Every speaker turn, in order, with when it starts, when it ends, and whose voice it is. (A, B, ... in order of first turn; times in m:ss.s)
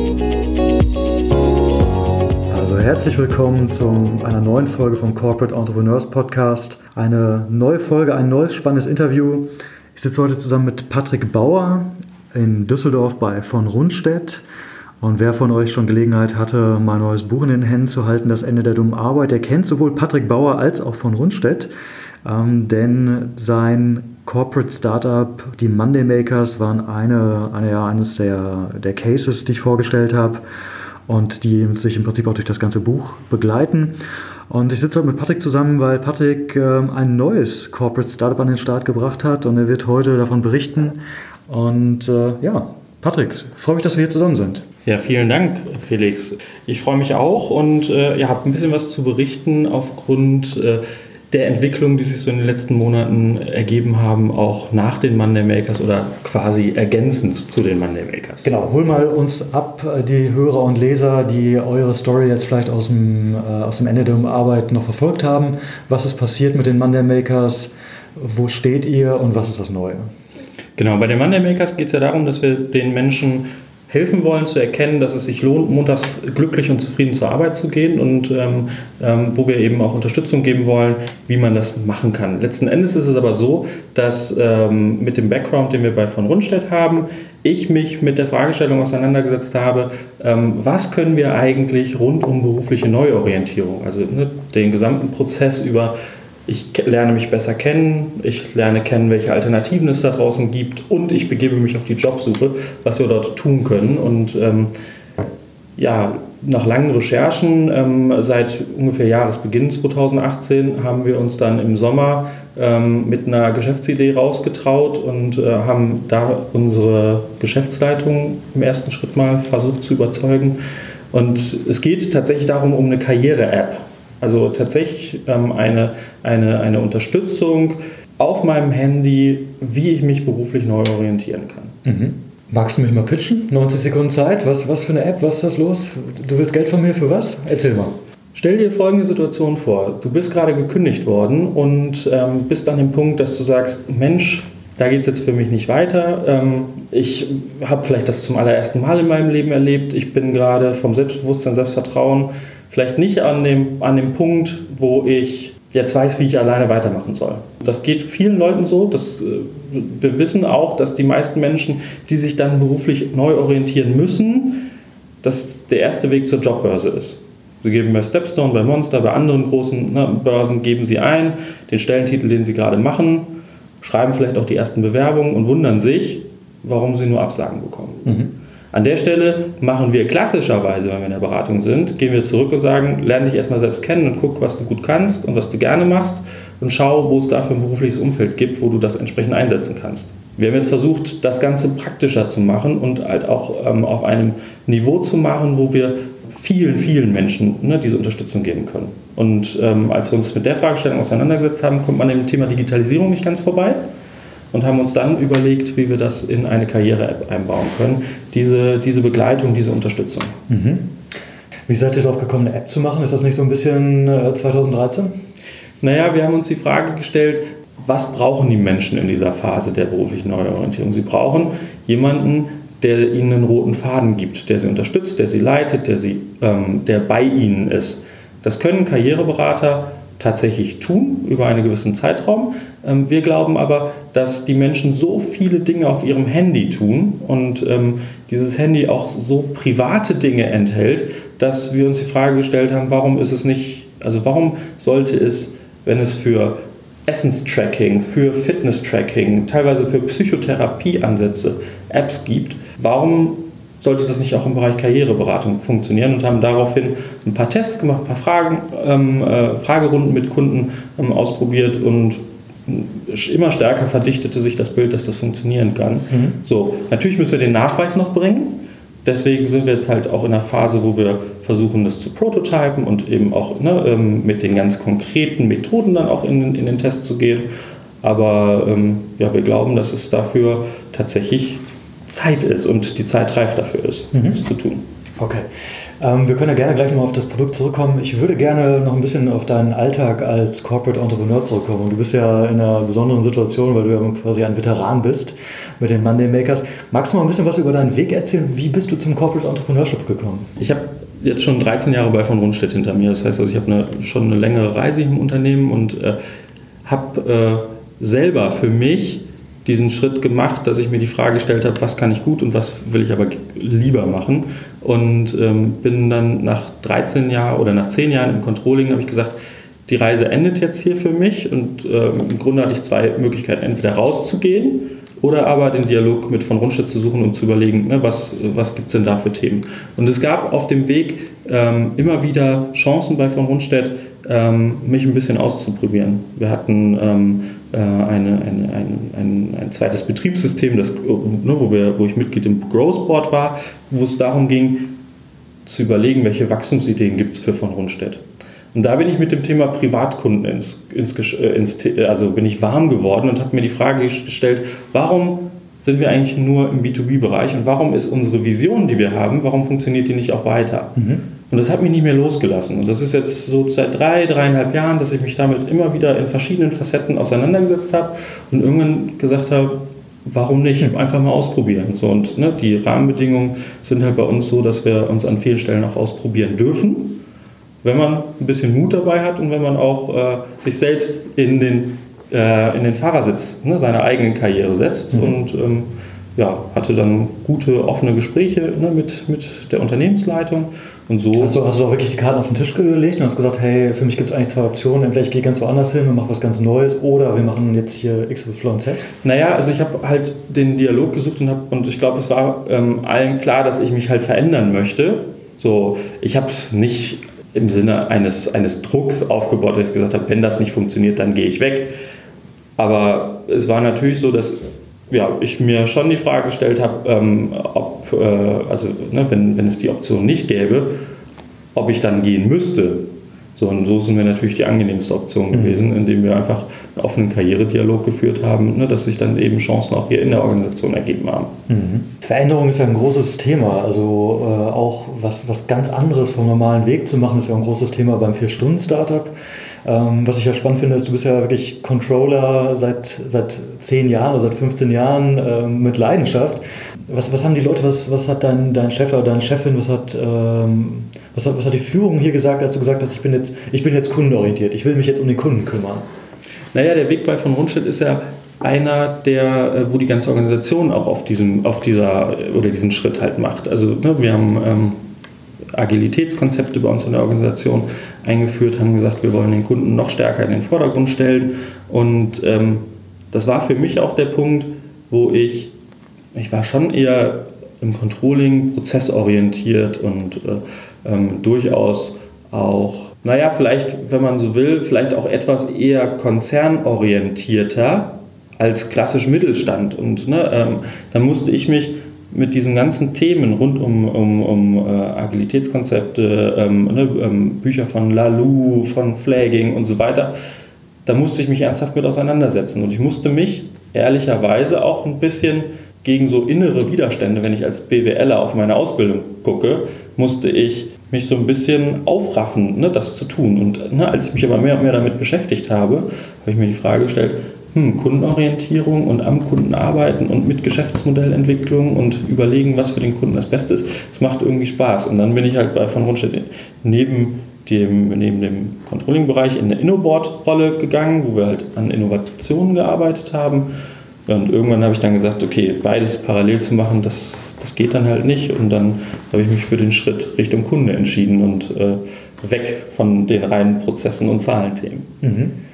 0:02.5-0:14.4 A
0:15.0-0:21.7 A
0:22.2-0:30.4 A
0:31.1-0:34.0 A
0:34.5-0:44.6 A
0:44.8-0:58.5 B
0:58.4-1:10.1 A
1:10.8-1:36.0 B
1:36.5-1:44.7 B
1:45.8-2:00.6 B
2:01.1-2:11.7 B
2:11.8-2:17.9 A
2:18.3-2:44.7 B
2:45.2-2:58.2 B
2:58.0-2:58.3 A
2:58.7-3:23.8 B
3:24.5-3:30.4 B
3:30.5-3:31.0 A
3:31.7-3:35.1 A
3:35.8-4:37.5 B
4:26.1-4:26.4 A
4:38.0-4:44.8 B
4:45.2-4:45.4 A
4:46.0-5:00.5 A
5:00.6-5:06.2 B
5:06.8-5:45.0 B
5:45.6-5:48.2 B
5:48.7-6:01.0 B
6:01.0-6:01.2 A
6:01.5-6:17.2 B
6:17.8-6:31.6 B
6:31.4-6:39.1 A
6:39.2-6:51.9 B
6:52.8-6:54.6 B
6:55.1-7:01.0 B
7:01.7-7:11.5 B
7:05.5-7:05.8 A
7:11.7-7:36.0 A
7:36.7-7:45.0 B
7:45.7-7:55.7 B
7:56.3-8:20.3 B
8:21.0-8:53.7 B
8:54.3-9:05.1 B
9:05.2-9:05.6 A